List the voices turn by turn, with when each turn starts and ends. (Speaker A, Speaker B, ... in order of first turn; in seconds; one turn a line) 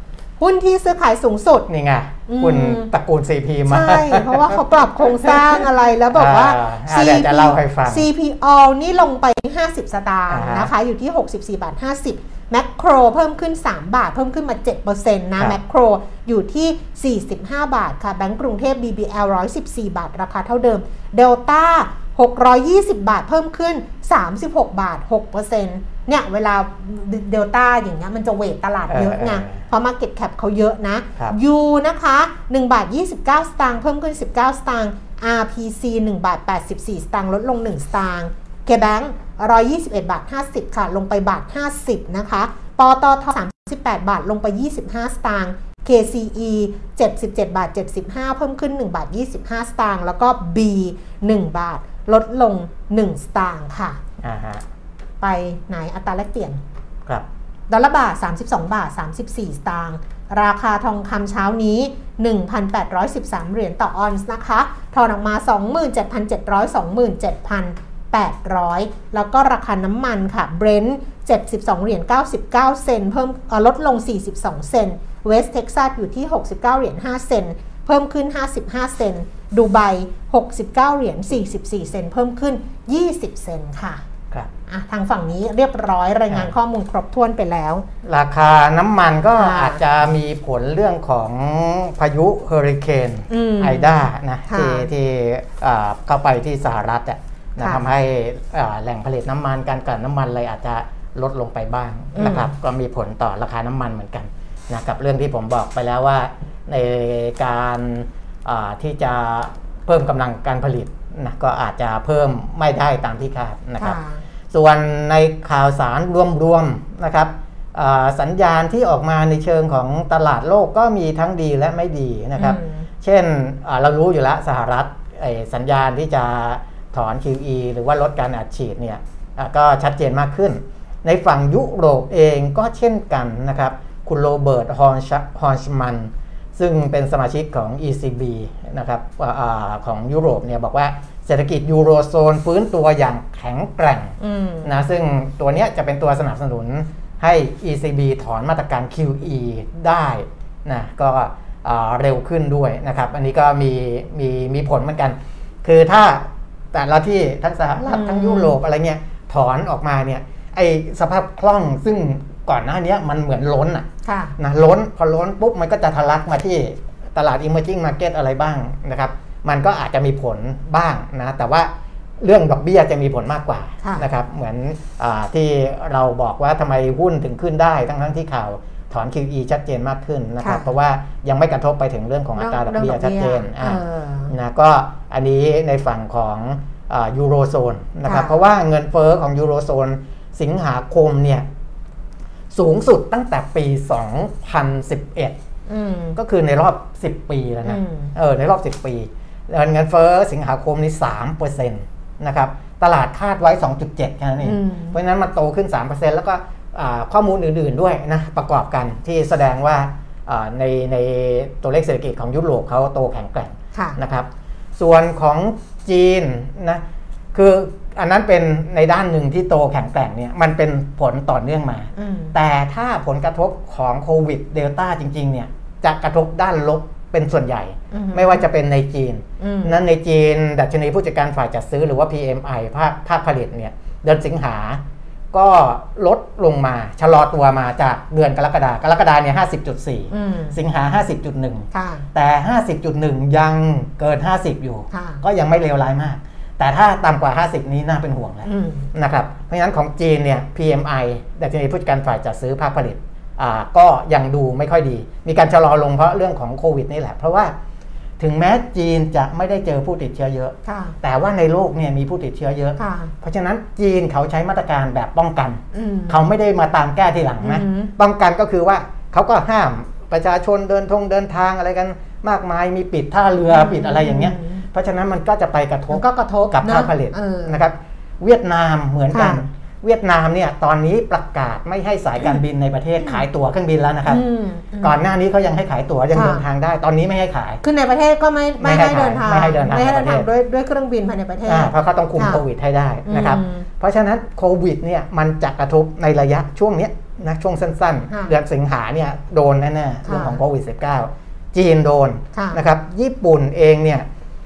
Speaker A: 0.4-1.7
Speaker B: 1.7-8.1
Speaker A: 2.3-2.9
Speaker A: 3.7-54.0
Speaker B: 10.3-10.7
Speaker B: 28.9-29.6
Speaker B: 54.2-54.6
Speaker A: 55.2-56.6
Speaker A: 57.7-84.0
Speaker A: 84.7-87.8
Speaker B: 88.0-114.0
Speaker A: 89.4-89.8
Speaker A: 93.3-94.9
Speaker A: 97.6-97.8
Speaker A: 102.1-102.5
Speaker A: 113.8-114.2
Speaker B: 114.5-163.9
Speaker A: 122.4-122.9
Speaker A: 144.2-144.8
Speaker A: 157.8-158.6
Speaker A: 164.0-164.3
Speaker B: 164.4-191.4
Speaker A: 173.8-174.1
Speaker A: 180.4-180.7
Speaker A: 182.3-184.3
Speaker A: 188.1-188.3
Speaker B: 192.5-195.4
Speaker A: 195.7-196.2
Speaker B: 196.2-216.8
Speaker A: 197.6-198.1
Speaker A: 204.4-205.0
Speaker B: 217.3-257.5
Speaker A: 221.9-222.3
Speaker A: 227.9-228.4
Speaker A: 229.4-229.8
Speaker A: 240.1-240.6
Speaker A: 241.7-242.1
Speaker A: 244.9-245.2
Speaker A: 248.4-248.9
Speaker B: 258.2-284.2
Speaker A: 260.6-260.9
Speaker A: 262.8-263.1
Speaker A: 265.7-266.2
Speaker A: 267.4-267.9
Speaker A: 273.5-274.6
Speaker A: 275.9-277.6
Speaker A: 279.1-279.4
Speaker A: 284.1-285.0
Speaker B: 284.8-287.6
Speaker A: 286.1-286.4
Speaker A: 287.6-292.4
Speaker B: 288.6-290.2
Speaker B: 291.4-304.1
Speaker A: 293.1-293.6
Speaker A: 298.1-298.3
Speaker A: 300.1-300.4
Speaker A: 302.3-302.6